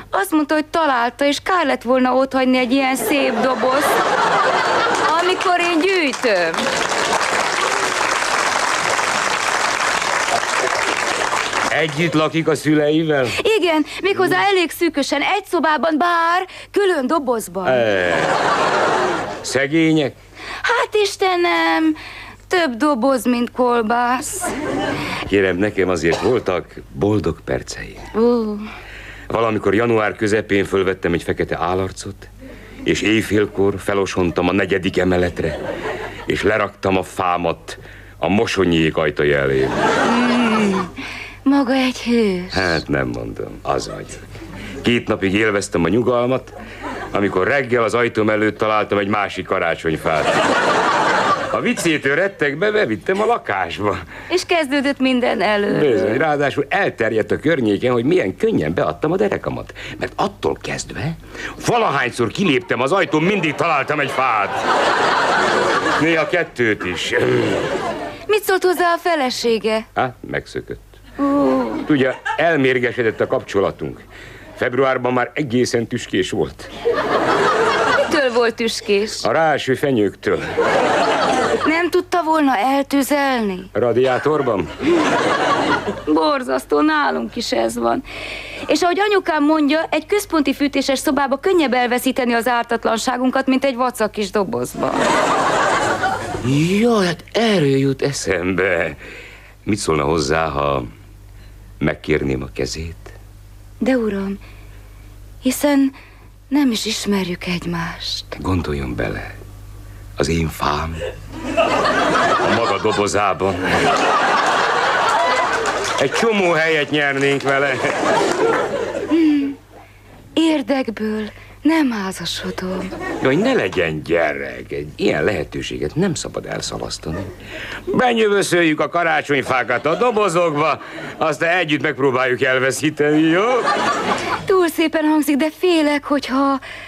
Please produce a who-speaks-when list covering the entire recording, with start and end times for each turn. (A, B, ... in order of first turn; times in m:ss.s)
0:00.1-0:04.0 A
0:05.0-0:06.7 A
0:11.7-0:13.4 B
0:13.4-0:17.8 A
0:17.6-0:18.3 B
0:19.4-0:20.1 B
0:20.6-0:22.0 A
0:22.5-0:24.5 A
0:25.2-0:28.0 B
0:28.1-0:28.7 A
0:29.3-0:32.3 B
0:32.8-0:35.6 B
0:36.3-0:39.8 B
0:40.0-0:40.9 A
0:41.4-0:42.8 A
0:42.5-0:44.3 B
0:44.8-0:46.5 B
0:47.1-0:50.4 B
0:51.5-0:54.0 B
0:54.3-0:56.2 A
0:55.7-1:04.6 B
1:06.0-1:07.6 B
1:08.3-1:09.9 A
1:09.9-1:10.8 B
1:11.2-1:11.8 A
1:11.7-1:14.0 B
1:14.6-1:16.7 B
1:18.0-1:19.2 A
1:19.2-1:20.4 B
1:21.6-1:23.7 A
1:23.7-1:24.7 B
1:26.0-1:28.0 A
1:28.6-1:35.1 A
1:36.4-1:39.0 B
1:39.6-1:40.9 B
1:41.8-1:43.1 B
1:43.8-1:44.4 A
1:45.4-1:45.9 A
1:46.5-1:48.3 A
1:48.3-1:49.4 B
1:50.2-1:51.0 B
1:52.4-1:53.8 B
1:56.0-1:58.0 B
1:59.1-1:59.6 A
2:00.4-2:02.9 A
2:03.2-2:07.3 B
2:07.9-2:13.7 B
2:14.4-2:16.6 A